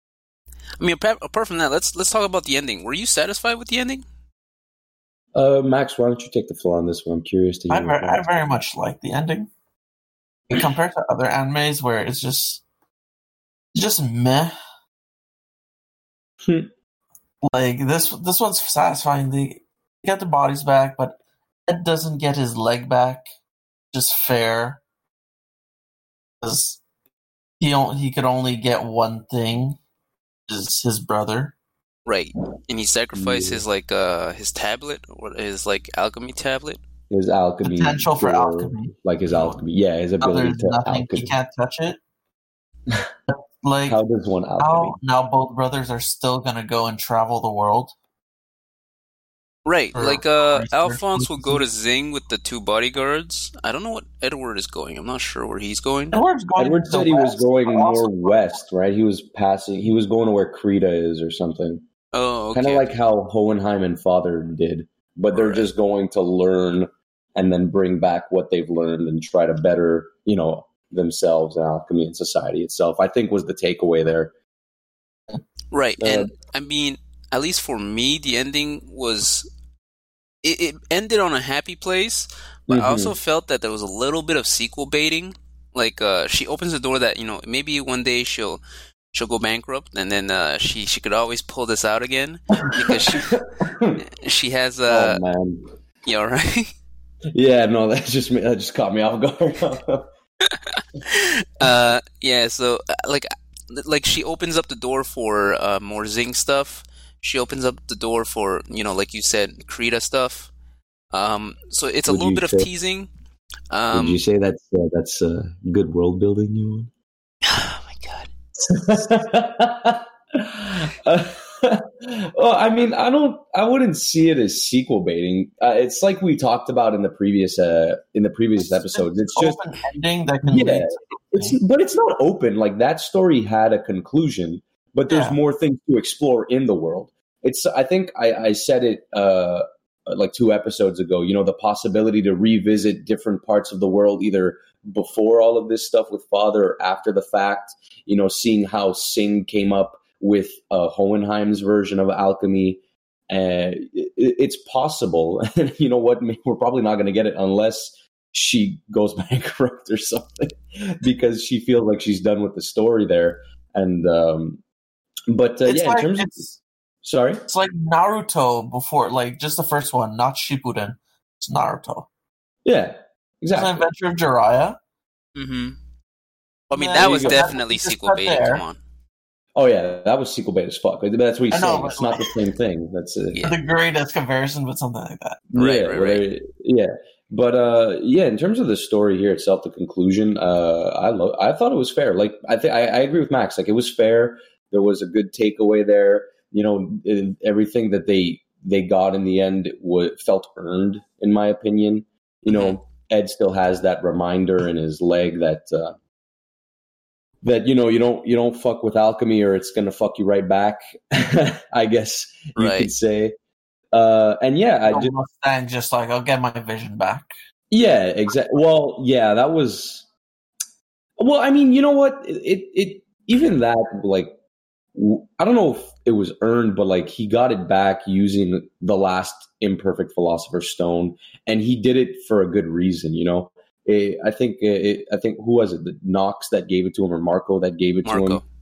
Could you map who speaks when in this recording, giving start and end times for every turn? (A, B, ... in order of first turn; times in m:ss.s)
0:00.8-0:04.0 A
0:05.3-0:08.2 B
0:07.7-0:09.5 C
0:10.5-0:12.6 C
0:13.7-0:14.5 C
0:16.4-0:16.7 B
0:17.4-0:23.2 C
0:23.9-0:24.8 C
0:26.4-0:26.8 C
0:27.6-0:29.8 C
0:30.5-0:31.5 C
0:32.0-0:36.8 A
0:33.1-0:33.6 B
0:37.1-0:41.3 B
0:37.6-0:39.6 C
0:40.2-0:42.0 C
0:43.3-0:44.0 C
0:43.8-0:45.0 B
0:44.6-0:47.9 C
0:49.6-0:56.2 A
0:49.9-0:51.6 C
0:56.1-0:58.5 C
0:56.6-1:01.8 B
1:02.1-1:02.9 A
1:02.5-1:14.3 B
1:05.3-1:05.7 A
1:15.7-1:19.5 A
1:16.0-1:16.3 B
1:20.4-1:28.6 A
1:22.7-1:23.2 B
1:29.1-1:33.4 A
1:32.9-1:34.0 B
1:34.2-1:35.2 A
1:34.9-1:35.7 B
1:36.0-1:36.7 A
1:37.3-1:40.1 B
1:40.4-1:50.5 A
1:51.1-1:53.1 A
1:52.1-1:52.7 B
1:53.7-1:54.2 A
1:53.9-1:56.9 B
1:57.4-1:58.3 A
1:58.6-2:09.6 B
2:08.7-2:11.6 C
2:10.5-2:44.6 B
2:15.1-2:15.4 C
2:45.3-2:46.4 B
2:45.6-2:46.6 C
2:47.0-2:47.4 B
2:47.5-2:52.1 C
2:52.6-2:53.9 B
2:53.5-2:54.8 C
2:55.4-2:55.8 A
2:56.7-2:58.8 A
2:56.7-2:58.6 C
2:57.0-2:57.6 B
2:59.6-3:03.4 B
3:01.5-3:02.4 C
3:03.3-3:03.6 A
3:03.4-3:05.4 C
3:05.5-3:26.0 B
3:05.6-3:06.2 A
3:22.5-3:22.8 A
3:27.4-3:33.3 B
3:32.6-3:32.9 A
3:33.9-3:35.1 B
3:34.9-3:37.3 C
3:37.7-3:40.0 B
3:41.2-3:44.3 B
3:44.9-3:58.4 B
3:58.0-3:58.4 A